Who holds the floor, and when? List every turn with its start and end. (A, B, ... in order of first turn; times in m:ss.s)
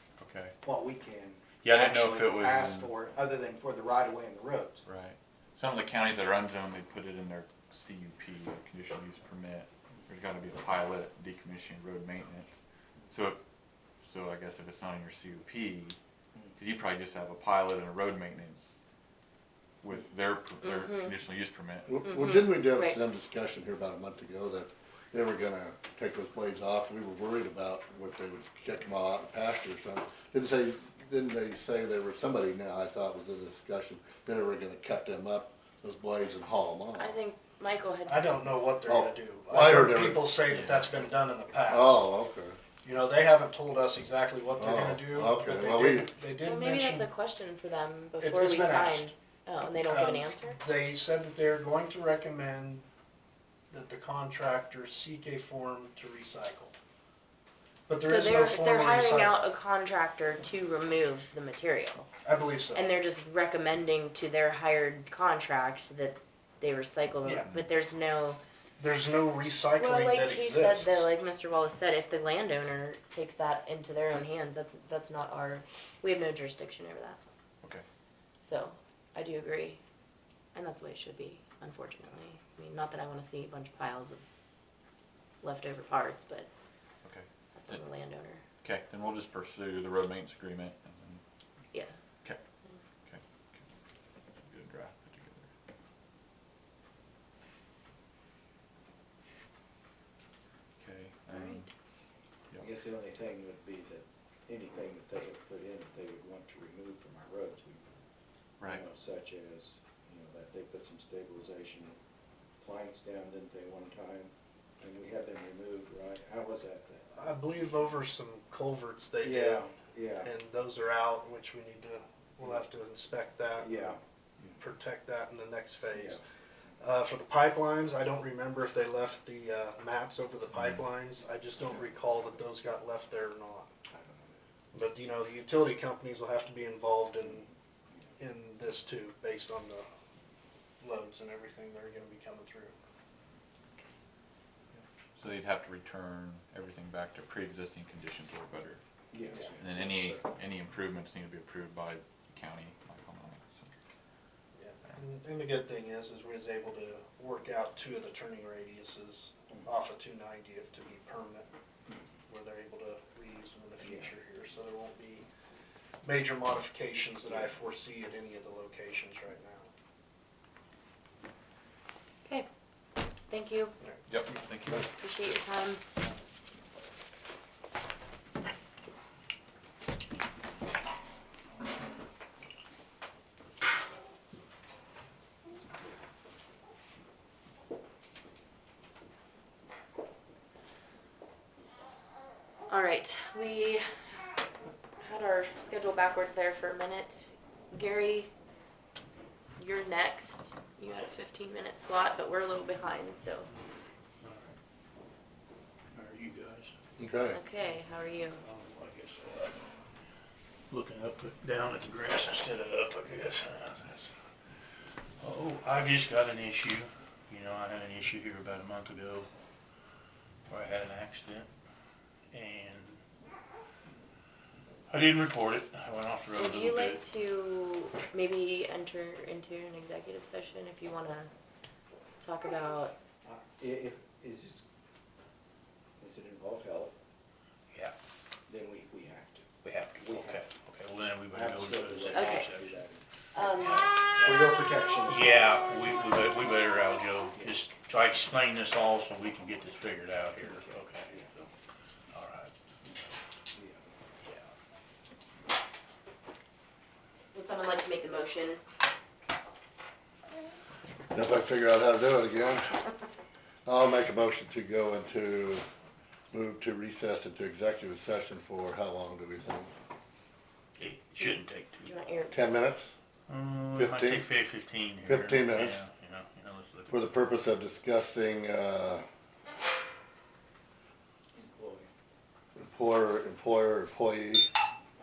0:00.2-0:00.5 A
0:00.6-0:04.8 B
0:01.6-0:02.9 A
0:04.8-0:13.4 A
0:14.0-0:16.0 A
0:16.6-0:18.7 A
0:19.8-0:22.0 A
0:20.6-0:21.1 C
0:21.9-0:37.2 D
0:22.0-0:23.0 C
0:36.9-0:38.4 C
0:38.0-0:42.0 E
0:38.9-0:40.4 D
0:40.4-0:41.0 A
0:41.6-0:42.6 D
0:42.8-0:47.1 E
0:44.6-0:46.1 D
0:46.4-0:50.6 C
0:48.2-0:49.1 E
0:49.8-0:52.8 E
0:53.7-0:56.7 E
0:57.9-0:59.4 E
0:58.0-1:02.1 C
1:02.2-1:02.9 E
1:02.7-1:08.4 C
1:07.2-1:07.5 E
1:08.8-1:11.1 E
1:09.8-1:17.2 C
1:18.4-1:19.8 C
1:20.5-1:24.2 C
1:25.4-1:26.5 C
1:27.0-1:27.8 A
1:27.5-1:28.4 C
1:28.6-1:31.2 A
1:31.7-1:32.0 C
1:33.0-1:33.7 A
1:34.4-1:35.5 A
1:40.8-1:41.7 A
1:41.3-1:41.7 C
1:42.6-1:47.9 B
1:48.6-1:52.0 B
1:52.6-1:57.1 B
1:57.1-2:03.9 E
1:59.2-2:00.3 B
2:03.5-2:04.6 B
2:04.6-2:06.2 E
2:05.9-2:06.2 B
2:06.8-2:13.7 E
2:10.5-2:10.8 A
2:11.6-2:11.9 B
2:13.9-2:14.4 B
2:14.7-2:17.4 E
2:17.2-2:18.1 B
2:18.2-2:19.8 E
2:20.8-2:22.7 E
2:24.7-2:28.8 A
2:29.1-2:30.2 B
2:29.6-2:33.7 A
2:34.5-2:41.5 E
2:42.3-2:45.2 E
2:43.8-2:44.1 B
2:46.0-2:49.7 E
2:53.3-2:53.8 C
2:54.1-2:54.9 A
2:54.7-2:55.8 C
3:12.7-3:14.3 C
3:15.0-3:18.3 C
3:19.6-3:23.5 C
3:24.2-3:24.5 F
3:25.9-3:26.7 F
3:27.0-3:27.4 D
3:27.3-3:28.4 C
3:28.4-3:29.7 F
3:30.7-3:34.2 F
3:35.2-3:39.3 F
3:40.5-3:41.5 F
3:42.3-3:43.0 F
3:44.9-3:47.0 F
3:46.3-3:51.3 C
3:52.2-3:52.9 C
3:53.2-3:54.6 B
3:56.0-3:56.9 B
3:58.5-4:00.4 B
3:59.6-4:02.8 F
4:01.3-4:06.0 B
4:02.1-4:02.5 C
4:03.3-4:03.9 C
4:04.1-4:11.5 F
4:07.3-4:07.6 B
4:10.4-4:11.3 B
4:12.1-4:13.1 F
4:13.5-4:13.9 B
4:14.2-4:14.5 F
4:17.3-4:18.6 C
4:21.1-4:22.8 D
4:23.6-4:25.6 D
4:26.3-4:29.7 D
4:30.8-4:32.0 F
4:31.8-4:32.5 C
4:32.3-4:32.9 D
4:33.3-4:37.2 F
4:33.7-4:34.3 D
4:35.0-4:35.8 D
4:36.9-4:39.0 D
4:41.4-4:41.9 B
4:42.6-4:44.5 D